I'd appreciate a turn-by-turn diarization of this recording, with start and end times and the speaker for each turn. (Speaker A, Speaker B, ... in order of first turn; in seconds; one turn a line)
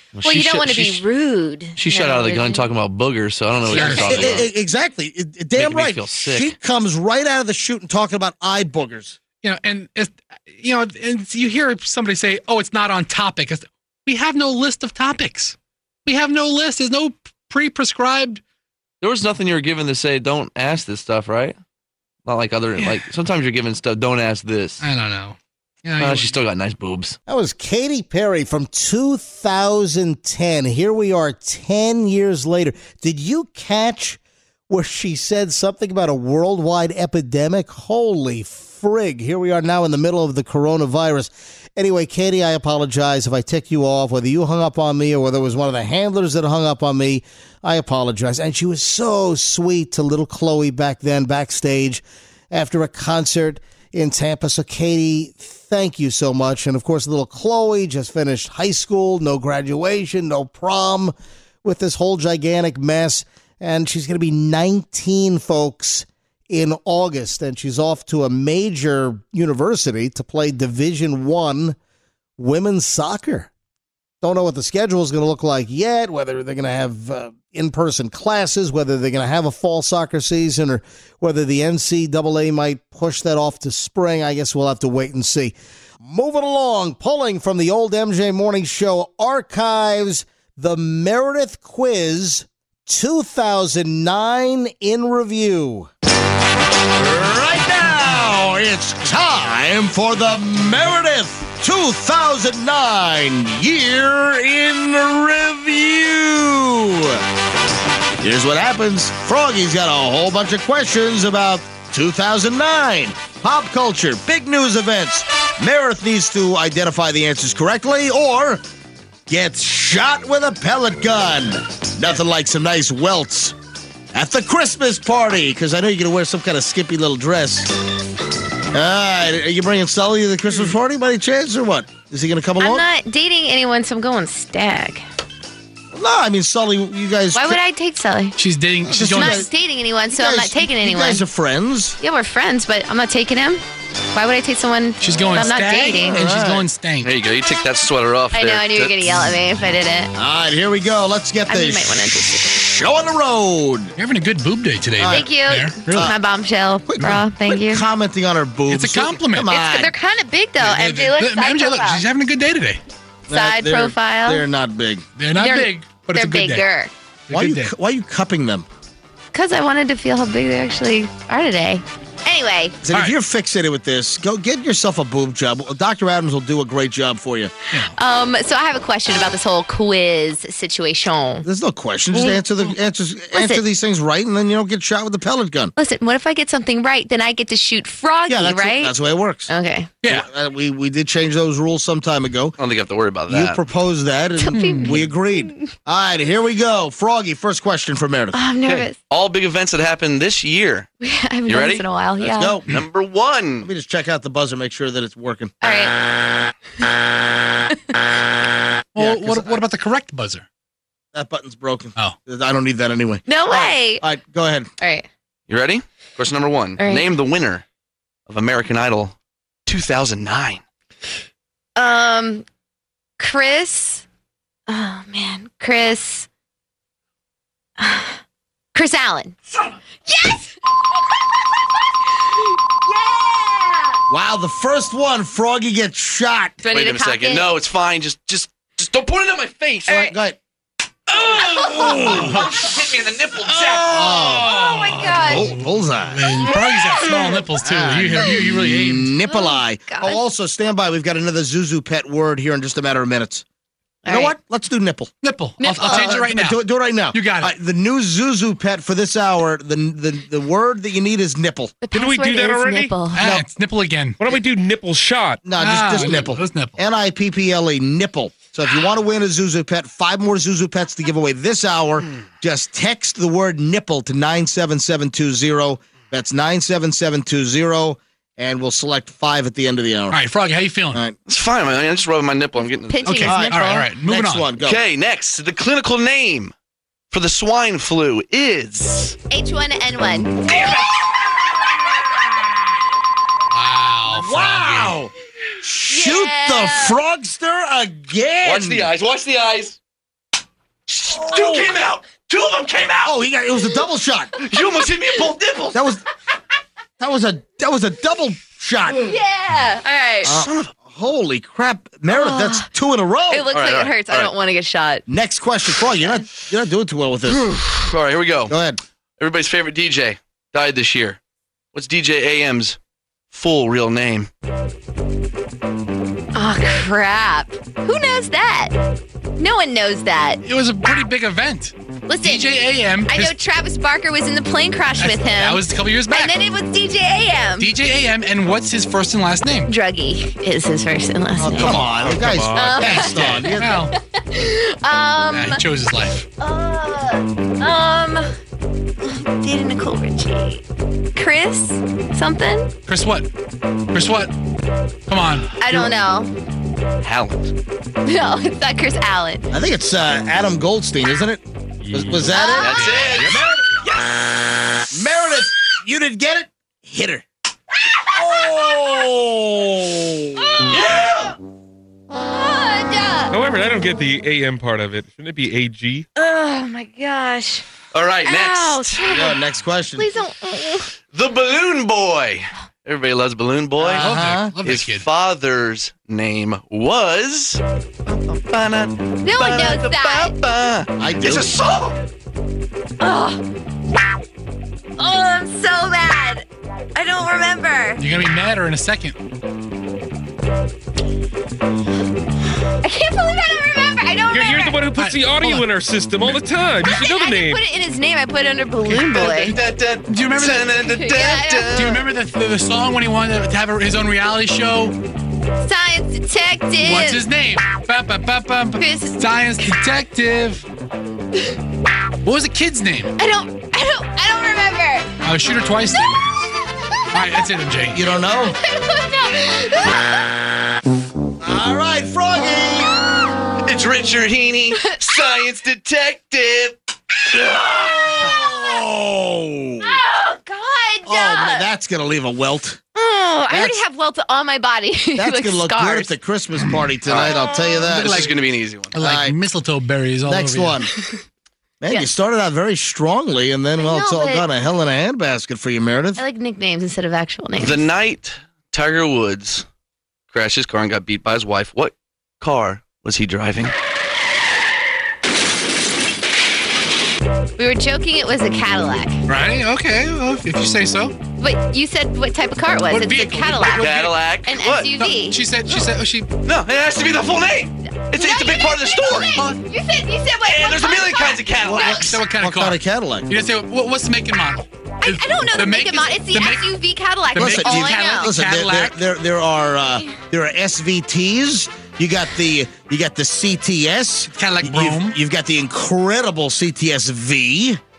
Speaker A: 0.1-1.0
Speaker B: 0.2-2.7
Speaker A: 1.8-4.5
Speaker C: 3.7-4.1
Speaker B: 3.8-4.2
Speaker D: 3.9-9.2
Speaker A: 5.5-6.5
Speaker C: 9.4-15.5
Speaker C: 16.1-18.4
Speaker A: 19.0-21.6
Speaker A: 22.2-24.8
Speaker C: 24.8-26.3
Speaker A: 26.0-27.2
Speaker E: 27.3-61.1
Speaker E: 61.6-71.8
Speaker E: 72.4-73.5
Speaker E: 74.2-95.9
Speaker D: 97.0-100.9
Speaker E: 100.0-103.5
Speaker D: 101.7-102.0
Speaker D: 102.8-107.2
Speaker D: 108.2-110.3
Speaker E: 109.1-109.6
Speaker E: 110.2-111.9
Speaker D: 111.9-116.0
Speaker E: 113.3-118.6
Speaker D: 117.1-118.4
Speaker E: 119.3-121.2
Speaker D: 119.5-120.2
Speaker D: 121.0-123.4
Speaker E: 122.4-123.5
Speaker D: 124.1-127.6
Speaker D: 128.7-132.8
Speaker B: 132.6-135.0
Speaker D: 135.9-137.6
Speaker B: 137.3-138.4
Speaker C: 138.4-139.5
Speaker D: 138.8-139.5
Speaker B: 139.0-141.2
Speaker D: 140.1-141.9
Speaker B: 142.0-143.6
Speaker B: 144.1-146.2
Speaker C: 145.0-147.1
Speaker D: 145.9-146.7
Speaker A: 147.0-149.3
Speaker B: 148.3-150.1
Speaker D: 150.2-153.9
Speaker B: 151.5-152.6
Speaker C: 154.0-156.1
Speaker D: 155.0-155.3
Speaker B: 155.1-157.8
Speaker D: 155.9-156.2
Speaker D: 156.8-159.9
Speaker C: 158.7-159.5
Speaker B: 159.5-162.0
Speaker C: 160.6-162.8
Speaker B: 163.3-164.4
Speaker D: 163.3-165.0
Speaker C: 165.2-166.7
Speaker B: 165.3-166.9
Speaker C: 167.3-167.7
Speaker D: 167.3-168.7
Speaker B: 169.3-172.8
Speaker D: 172.8-177.5
Speaker B: 177.8-181.4
Speaker D: 181.4-185.7
Speaker B: 183.3-183.6
Speaker B: 185.8-188.9
Speaker D: 188.3-189.5
Speaker B: 189.5-190.0
Speaker C: 190.0-190.3
Speaker D: 190.1-192.5
Speaker A: 192.6-193.6
Speaker D: 193.3-198.4
Speaker B: 194.4-195.7
Speaker C: 194.5-195.0
Speaker B: 198.3-199.0
Speaker A: 198.7-200.9
Speaker B: 201.0-202.6
Speaker A: 201.4-201.8
Speaker D: 202.2-202.7
Speaker A: 202.7-203.7
Speaker D: 203.6-205.5
Speaker B: 205.6-205.9
Speaker C: 208.9-210.4
Speaker D: 209.0-209.6
Speaker D: 211.1-214.7
Speaker B: 213.2-214.0
Speaker B: 214.8-215.1
Speaker A: 215.5-217.6
Speaker B: 216.8-217.1
Speaker A: 218.3-219.1
Speaker A: 219.7-220.6
Speaker B: 221.8-222.4
Speaker B: 223.2-224.0
Speaker B: 224.7-226.3
Speaker B: 227.8-228.2
Speaker B: 228.7-229.3
Speaker B: 230.0-230.5
Speaker B: 232.3-234.0
Speaker D: 234.1-236.5
Speaker B: 236.6-237.5
Speaker A: 236.7-240.1
Speaker D: 239.9-240.4
Speaker A: 241.1-244.2
Speaker B: 241.4-242.2
Speaker D: 241.6-242.6
Speaker D: 243.6-244.6
Speaker C: 243.7-249.1
Speaker B: 244.3-245.5
Speaker D: 245.2-246.3
Speaker D: 247.6-253.4
Speaker B: 249.2-250.2
Speaker B: 254.0-254.3
Speaker D: 254.1-255.1
Speaker C: 255.2-257.5
Speaker B: 255.6-256.3
Speaker D: 255.8-261.8
Speaker B: 261.8-263.3
Speaker F: 261.9-262.9
Speaker C: 263.1-264.2
Speaker D: 263.2-263.4
Speaker F: 264.2-265.4
Speaker D: 265.4-280.2
Speaker C: 265.6-266.8
Speaker C: 280.1-281.0
Speaker A: 281.3-283.2
Speaker B: 282.9-283.8
Speaker C: 283.0-284.5
Speaker D: 283.2-284.8
Speaker A: 284.6-286.5
Speaker A: 287.1-289.2
Speaker B: 289.3-290.8
Speaker A: 290.5-290.9
Speaker C: 293.5-295.0
Speaker D: 294.1-295.1
Speaker D: 295.6-298.9
Speaker B: 295.9-297.0
Speaker A: 298.4-299.8
Speaker A: 300.9-303.2
Speaker D: 301.1-301.7
Speaker D: 303.0-304.3
Speaker A: 304.4-305.8
Speaker D: 305.7-306.0
Speaker D: 307.0-309.1
Speaker B: 309.0-310.4
Speaker D: 310.2-313.5
Speaker A: 310.3-310.7
Speaker B: 312.1-312.7
Speaker B: 313.3-315.0
Speaker A: 313.5-314.3
Speaker D: 315.1-317.6
Speaker A: 317.3-318.6
Speaker D: 318.5-318.8
Speaker A: 319.2-321.2
Speaker A: 321.7-322.8
Speaker A: 323.3-324.3
Speaker B: 326.3-328.7
Speaker B: 329.4-330.4
Speaker C: 330.4-333.3
Speaker B: 332.1-332.5
Speaker B: 333.1-337.7
Speaker C: 335.0-336.4
Speaker C: 337.6-339.7
Speaker B: 339.7-341.9
Speaker D: 341.4-343.8
Speaker F: 341.6-343.2
Speaker B: 342.5-345.6
Speaker C: 342.9-343.9
Speaker C: 345.3-346.2
Speaker B: 346.4-348.3
Speaker B: 349.0-350.6
Speaker B: 351.1-352.7
Speaker C: 352.9-353.3
Speaker C: 353.9-354.3
Speaker C: 355.1-355.5
Speaker B: 355.6-356.3
Speaker A: 357.0-357.5
Speaker B: 358.0-359.4
Speaker D: 359.5-363.4
Speaker C: 361.9-363.1
Speaker B: 362.3-363.0
Speaker A: 362.6-364.5
Speaker D: 364.9-367.2
Speaker D: 368.1-370.4
Speaker B: 368.2-368.9
Speaker B: 370.4-370.9
Speaker A: 370.7-371.4
Speaker B: 372.1-373.3
Speaker F: 373.3-376.1
Speaker B: 376.1-377.7
Speaker A: 377.9-379.0
Speaker B: 378.2-379.4
Speaker D: 379.1-380.1
Speaker B: 379.9-380.9
Speaker A: 381.1-392.0
Speaker D: 383.8-384.6
Speaker C: 383.9-385.1
Speaker B: 389.2-390.4
Speaker D: 391.0-391.6
Speaker B: 393.0-393.4
Speaker B: 395.0-398.0
Speaker C: 398.0-399.2
Speaker B: 402.8-404.8
Speaker C: 404.3-405.7
Speaker F: 404.3-407.6
Speaker B: 406.8-409.6
Speaker C: 408.8-409.3
Speaker A: 409.0-412.1
Speaker C: 410.1-410.7
Speaker B: 410.9-411.7
Speaker C: 411.7-415.0
Speaker B: 415.6-417.3
Speaker C: 416.8-420.6
Speaker B: 418.8-419.7
Speaker C: 422.2-423.1
Speaker B: 423.2-425.1
Speaker C: 425.2-426.4
Speaker C: 427.1-428.1
Speaker D: 427.9-428.6
Speaker B: 428.4-430.2
Speaker D: 431.4-432.9
Speaker A: 433.6-436.8
Speaker B: 434.8-435.0
Speaker A: 437.3-437.9
Speaker D: 437.5-440.0
Speaker B: 439.8-441.7
Speaker D: 441.0-442.8
Speaker B: 442.9-446.1
Speaker D: 443.5-443.8
Speaker D: 445.2-448.3
Speaker A: 447.1-447.4
Speaker B: 447.2-447.8
Speaker C: 447.9-448.3
Speaker A: 448.0-449.0
Speaker C: 448.9-450.8
Speaker D: 449.0-449.4
Speaker D: 450.3-450.9
Speaker D: 451.8-456.2
Speaker B: 451.9-452.1
Speaker B: 453.8-454.4
Speaker B: 456.1-457.8
Speaker A: 457.6-459.6
Speaker A: 460.3-463.7
Speaker B: 467.6-469.2
Speaker C: 469.3-471.1
Speaker B: 471.4-475.4
Speaker C: 472.9-474.2
Speaker A: 473.6-474.9
Speaker C: 474.9-476.3
Speaker A: 476.4-479.4
Speaker B: 477.9-482.1
Speaker C: 479.2-479.6
Speaker A: 480.4-482.2
Speaker D: 481.6-483.3
Speaker C: 482.0-486.7
Speaker B: 485.0-488.4
Speaker C: 487.3-489.0
Speaker D: 487.3-497.8
Speaker C: 494.3-495.2